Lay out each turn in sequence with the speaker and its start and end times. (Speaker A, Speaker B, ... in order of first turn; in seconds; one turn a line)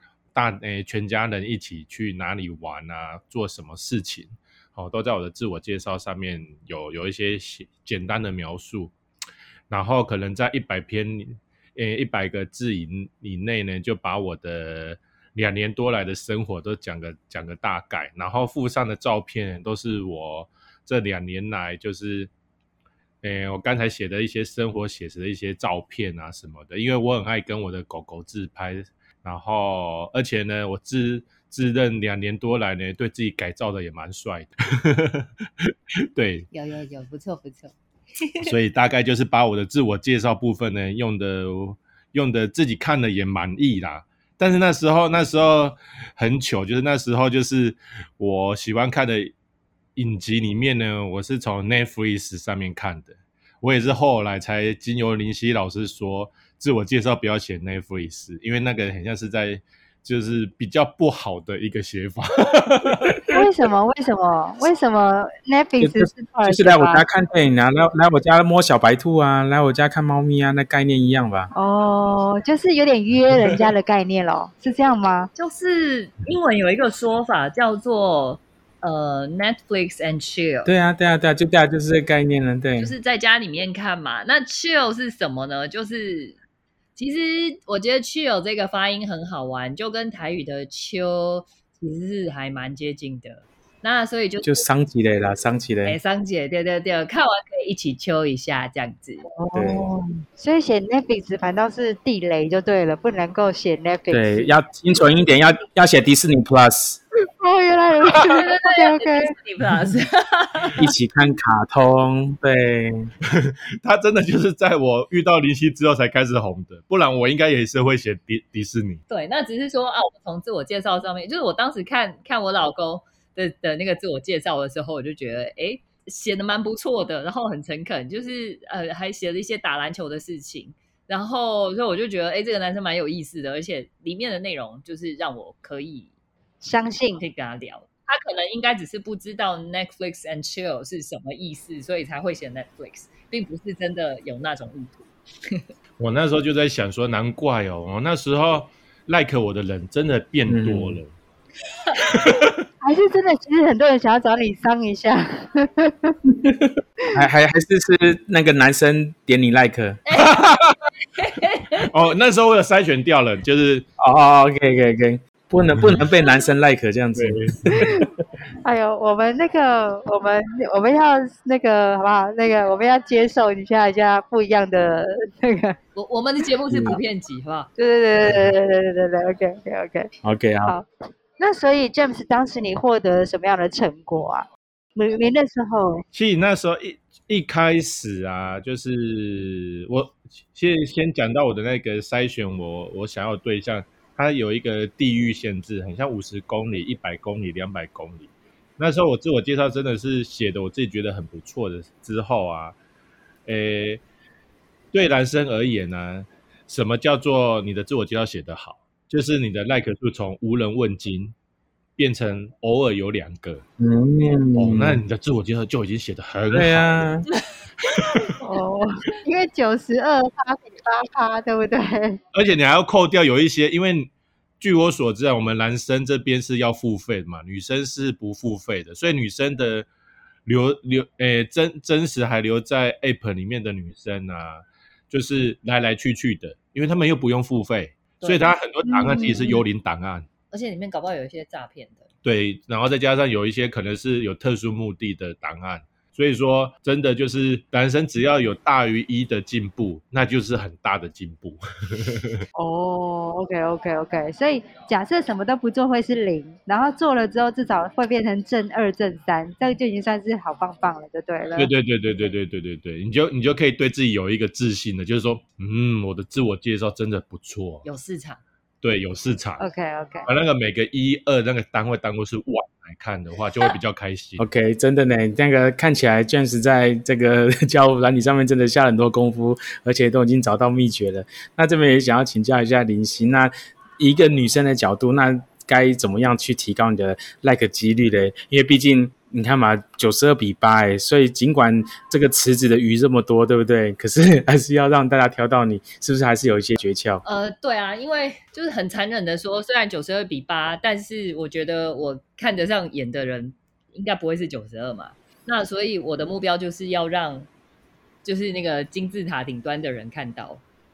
Speaker A: 0.3-8.9
Speaker A: 9.7-22.3
Speaker A: 23.2-36.5
Speaker B: 36.5-38.5
Speaker A: 38.4-49.3
Speaker A: 50.0-63.3
Speaker C: 63.3-67.0
Speaker D: 65.8-71.5
Speaker C: 71.5-75.3
Speaker B: 75.3-80.7
Speaker D: 80.7-83.0
Speaker B: 82.8-86.4
Speaker B: 87.0-94.6
Speaker D: 94.4-96.0
Speaker B: 95.8-99.2
Speaker C: 99.3-104.5
Speaker D: 99.5-99.9
Speaker D: 104.1-107.0
Speaker C: 107.4-109.3
Speaker B: 108.2-110.8
Speaker D: 110.8-113.1
Speaker A: 113.3-119.0
Speaker B: 119.1-136.1
Speaker C: 136.6-137.2
Speaker B: 137.2-145.7
Speaker A: 146.0-151.1
Speaker D: 150.5-151.0
Speaker B: 151.8-152.1
Speaker A: 152.0-152.7
Speaker C: 152.8-156.2
Speaker D: 156.4-160.0
Speaker B: 160.1-160.4
Speaker A: 160.2-160.8
Speaker B: 161.1-161.9
Speaker A: 161.9-163.8
Speaker D: 164.0-168.0
Speaker A: 165.7-166.1
Speaker A: 167.2-168.1
Speaker C: 167.8-168.1
Speaker C: 168.6-175.8
Speaker B: 175.9-177.7
Speaker D: 176.7-177.0
Speaker C: 177.8-180.1
Speaker D: 178.2-178.5
Speaker D: 180.2-180.8
Speaker C: 181.4-186.0
Speaker A: 186.1-202.8
Speaker A: 203.5-204.0
Speaker A: 204.9-211.3
Speaker A: 212.0-213.6
Speaker D: 213.8-215.0
Speaker A: 214.6-216.9
Speaker D: 216.5-217.2
Speaker A: 217.9-218.3
Speaker B: 218.0-218.3
Speaker C: 218.4-222.2
Speaker A: 222.3-229.9
Speaker A: 230.5-240.3
Speaker B: 238.2-238.5
Speaker C: 238.8-239.6
Speaker B: 240.5-242.1
Speaker A: 242.2-252.4
Speaker C: 252.6-261.7
Speaker A: 261.6-267.9
Speaker B: 267.8-268.4
Speaker A: 268.8-269.6
Speaker C: 269.6-270.3
Speaker A: 270.3-274.5
Speaker D: 274.4-297.2
Speaker B: 297.2-307.5
Speaker B: 308.2-310.6